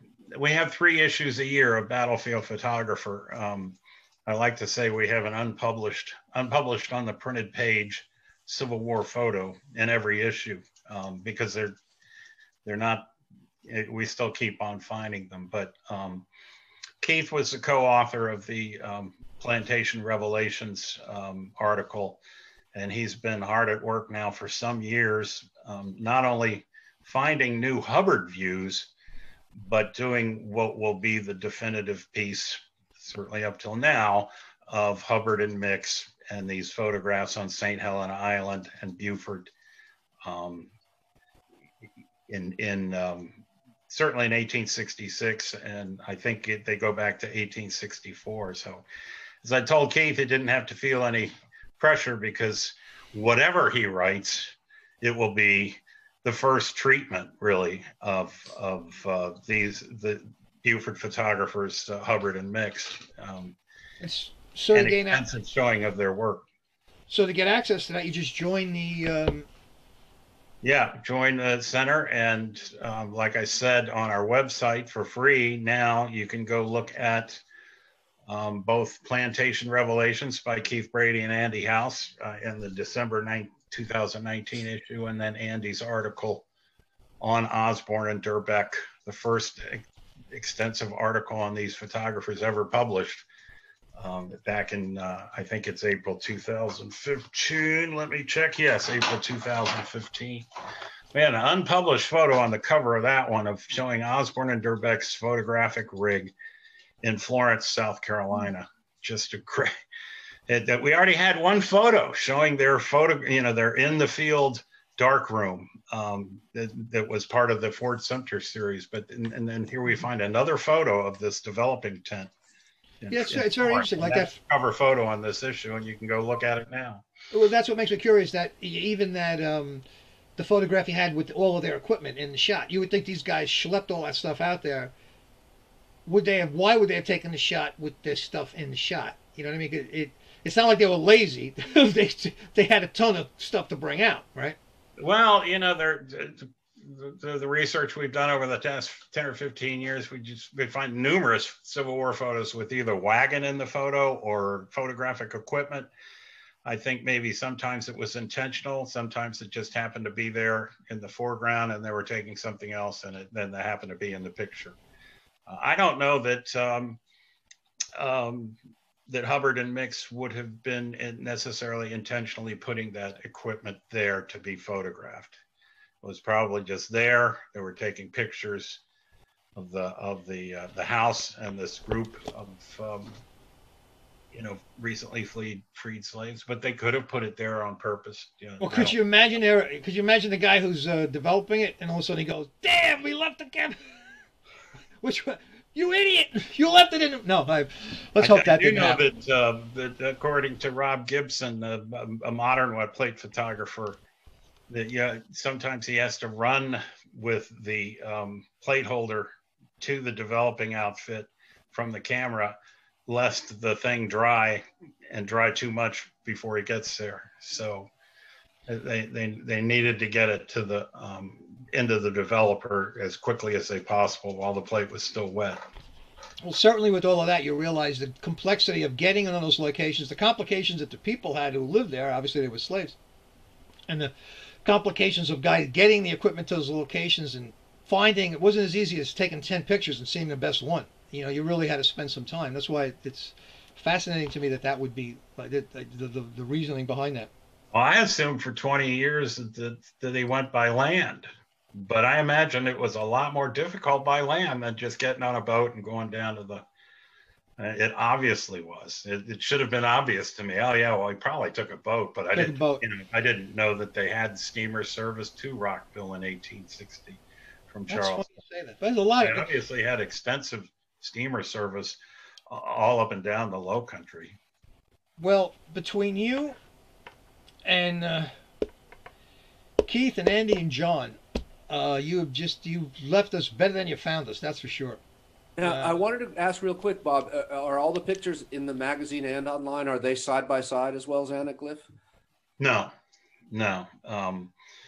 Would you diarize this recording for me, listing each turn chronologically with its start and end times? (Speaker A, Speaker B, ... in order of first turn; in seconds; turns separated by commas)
Speaker A: 0.3-11.8, Speaker A: 12.6-13.1, Speaker A: 13.6-16.3, Speaker A: 17.0-22.2, Speaker A: 22.7-28.9, Speaker A: 29.6-39.5, Speaker A: 40.2-40.7, Speaker A: 42.3-48.9, Speaker A: 49.4-63.6, Speaker B: 64.0-65.2, Speaker A: 64.7-66.5, Speaker B: 67.1-69.5, Speaker A: 70.6-77.4, Speaker A: 78.3-86.5, Speaker A: 87.2-93.2, Speaker A: 94.0-100.5, Speaker A: 101.1-106.3, Speaker A: 107.0-109.7, Speaker A: 110.5-122.3, Speaker A: 123.0-127.1, Speaker B: 123.1-124.3, Speaker B: 127.3-129.8, Speaker B: 130.4-134.9, Speaker B: 136.1-144.6, Speaker A: 145.0-155.9, Speaker A: 156.6-164.8, Speaker A: 165.5-167.0, Speaker A: 168.0-175.4, Speaker A: 176.0-178.8, Speaker A: 179.6-183.2, Speaker A: 184.3-189.0, Speaker B: 188.6-193.8, Speaker B: 195.0-199.0, Speaker A: 198.2-204.0, Speaker A: 204.7-217.9, Speaker A: 218.7-225.6, Speaker B: 226.4-232.9, Speaker B: 233.9-234.1, Speaker B: 234.6-247.3, Speaker A: 247.7-256.6, Speaker A: 257.6-268.3, Speaker B: 262.3-262.8, Speaker B: 267.9-269.5, Speaker A: 269.2-274.4, Speaker B: 275.2-276.6, Speaker B: 277.6-278.3, Speaker B: 279.9-281.2, Speaker B: 281.7-285.0, Speaker C: 285.6-291.9, Speaker B: 285.6-285.9, Speaker A: 292.6-292.9, Speaker A: 293.5-294.5